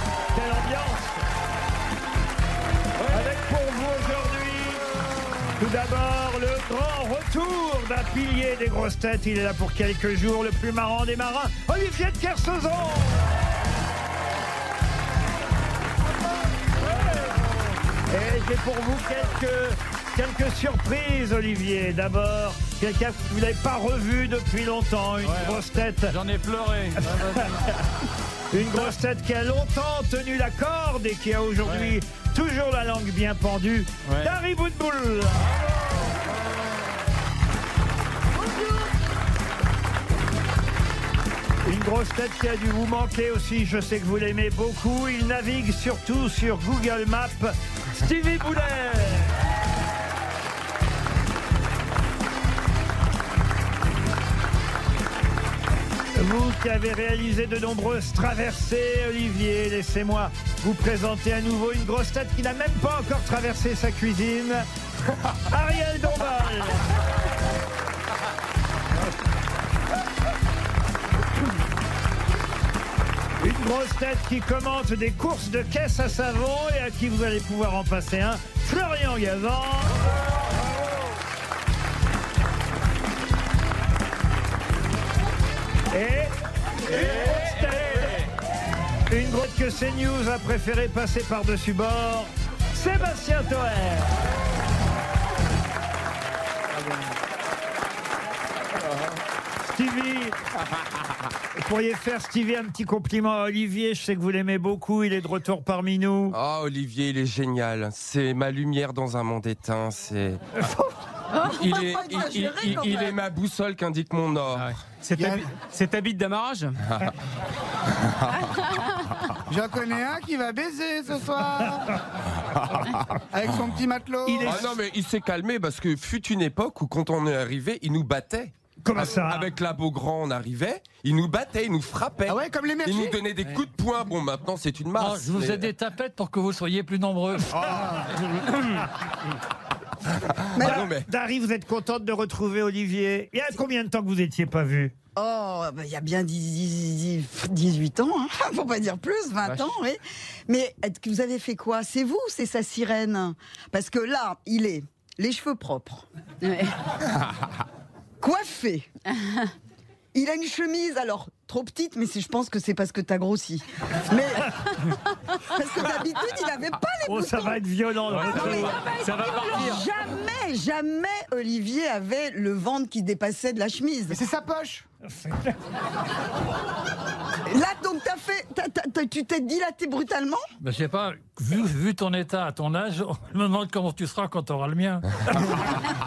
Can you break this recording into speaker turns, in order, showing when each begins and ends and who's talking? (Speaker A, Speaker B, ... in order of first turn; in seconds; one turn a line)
Speaker A: 0.3-1.2
Speaker A: 3.1-4.8
Speaker A: 5.6-13.2
Speaker A: 18.1-26.1
Speaker B: 25.2-27.5
Speaker A: 27.4-27.8
Speaker A: 28.5-35.5
Speaker B: 31.6-32.0
Speaker C: 38.4-38.9
Speaker A: 41.6-49.3
Speaker A: 56.1-64.7
Speaker A: 65.5-66.8
Speaker A: 73.4-80.0
Speaker A: 85.9-86.3
Speaker A: 86.9-88.2
Speaker A: 89.1-94.1
Speaker A: 99.6-100.4
Speaker A: 101.6-106.4
Speaker D: 106.3-110.6
Speaker C: 111.4-113.1
Speaker D: 111.4-114.7
Speaker E: 114.6-116.8
Speaker F: 115.2-115.5
Speaker F: 119.5-122.0
Speaker F: 123.3-124.6
Speaker A: 124.2-124.7
Speaker D: 124.5-135.7
Speaker A: 128.8-129.5
Speaker F: 132.3-133.2
Speaker B: 135.0-137.6
Speaker C: 140.6-140.9
Speaker D: 140.6-141.1
Speaker A: 140.6-144.9
Speaker C: 145.2-156.7
Speaker C: 158.2-159.5
Speaker C: 160.1-167.6
Speaker A: 167.1-168.8
Speaker E: 168.2-169.8
Speaker C: 168.2-174.2
Speaker F: 174.1-174.8
Speaker C: 177.5-180.4
Speaker B: 180.6-185.5